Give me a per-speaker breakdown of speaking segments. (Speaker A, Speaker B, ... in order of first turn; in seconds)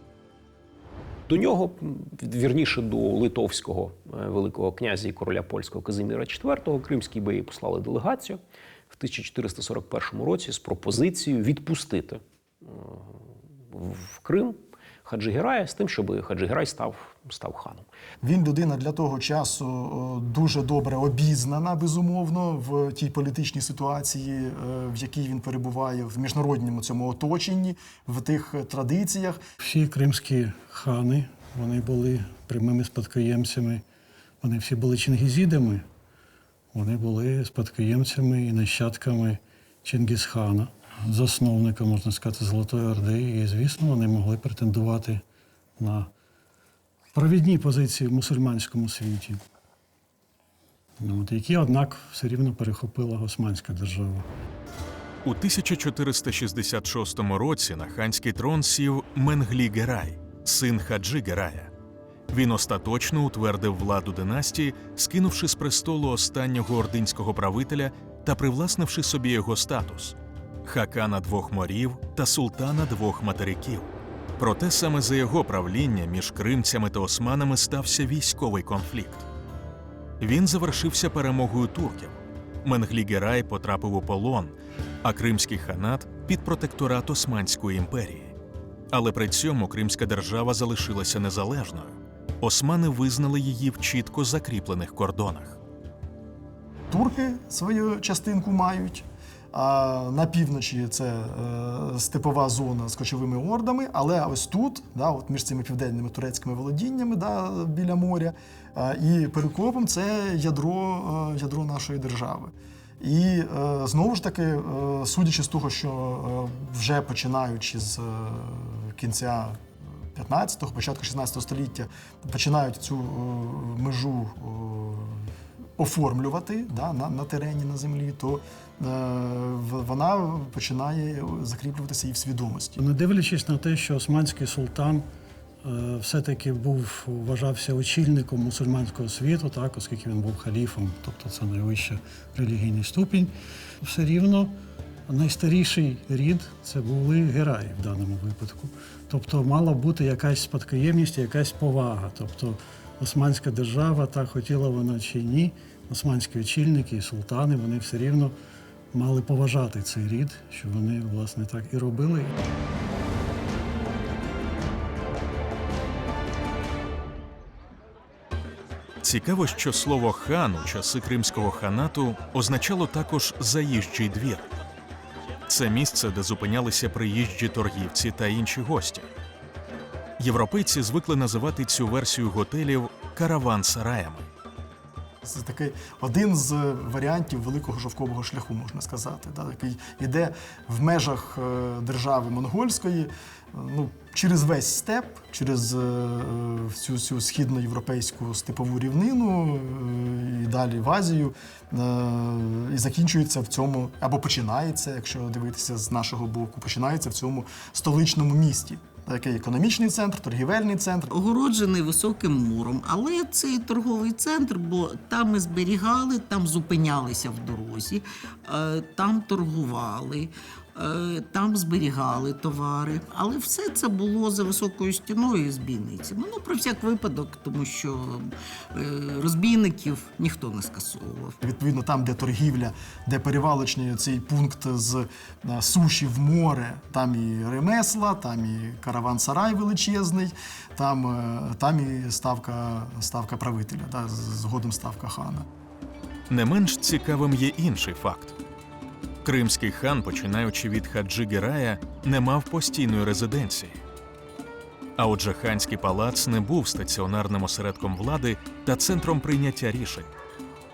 Speaker A: 1.3-17.9
Speaker B: 18.2-29.4, 96.9-132.8, 185.2-211.1, 231.4-245.5
Speaker C: 29.6-33.8, 34.4-35.9, 36.7-45.2, 45.8-46.1, 47.1-49.4, 51.0-54.3, 132.8-135.1, 135.6-144.6, 145.1-158.4, 158.9-162.4
Speaker D: 55.2-61.7, 62.3-79.3, 80.2-88.3, 88.9-95.6, 169.0-174.5, 175.5-179.1, 180.2-184.3, 246.3-248.4, 249.2-253.8, 255.0-260.1
Speaker E: 211.1-231.4